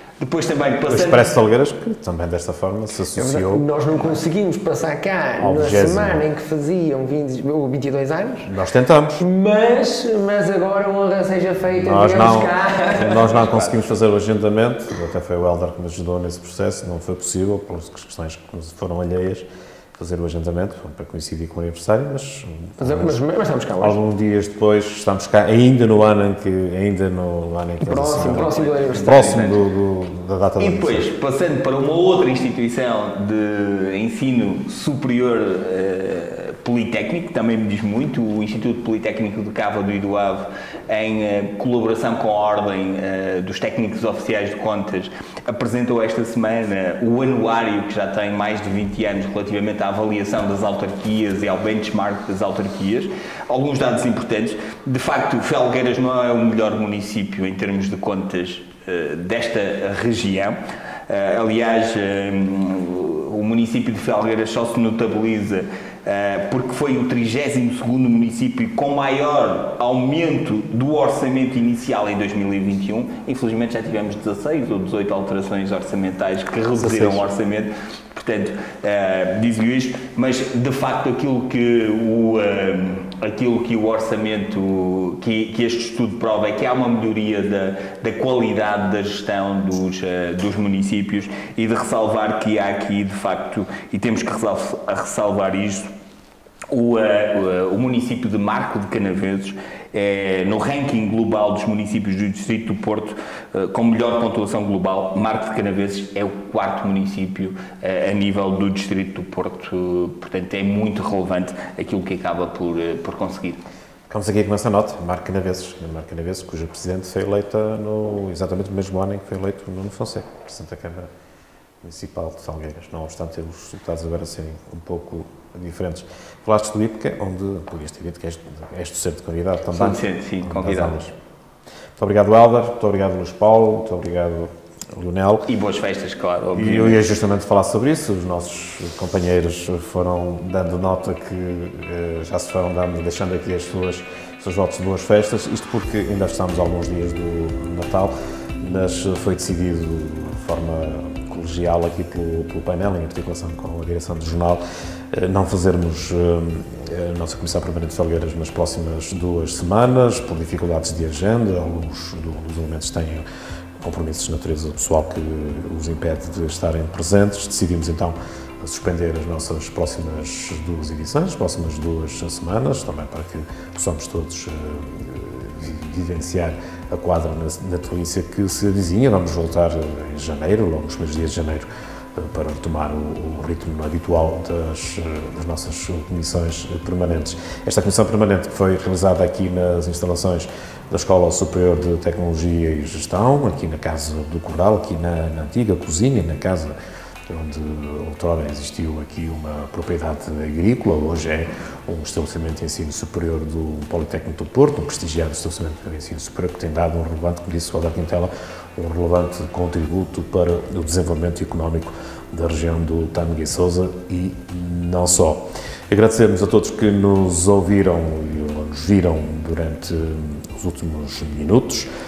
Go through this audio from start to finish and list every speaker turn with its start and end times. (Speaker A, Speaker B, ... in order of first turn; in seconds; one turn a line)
Speaker A: 0.2-1.3
Speaker B: 0.9-3.6
Speaker C: 3.1-8.5
Speaker B: 5.4-6.2
Speaker B: 8.4-9.2
Speaker C: 9.2-13.4
Speaker B: 11.8-23.2
Speaker A: 13.3-13.8
Speaker C: 22.8-24.0
Speaker B: 23.8-31.1
Speaker C: 27.8-29.5
Speaker A: 28.2-29.6
Speaker A: 30.6-95.9
Speaker B: 76.8-77.3
Speaker A: 96.7-113.6
Speaker B: 114.1-121.1
Speaker B: 121.8-131.1
Speaker A: 129.7-131.0
Speaker B: 132.0-135.5
Speaker A: 135.5-137.0
Speaker B: 136.6-163.2
Speaker B: 163.8-196.8
Speaker B: 197.3-221.9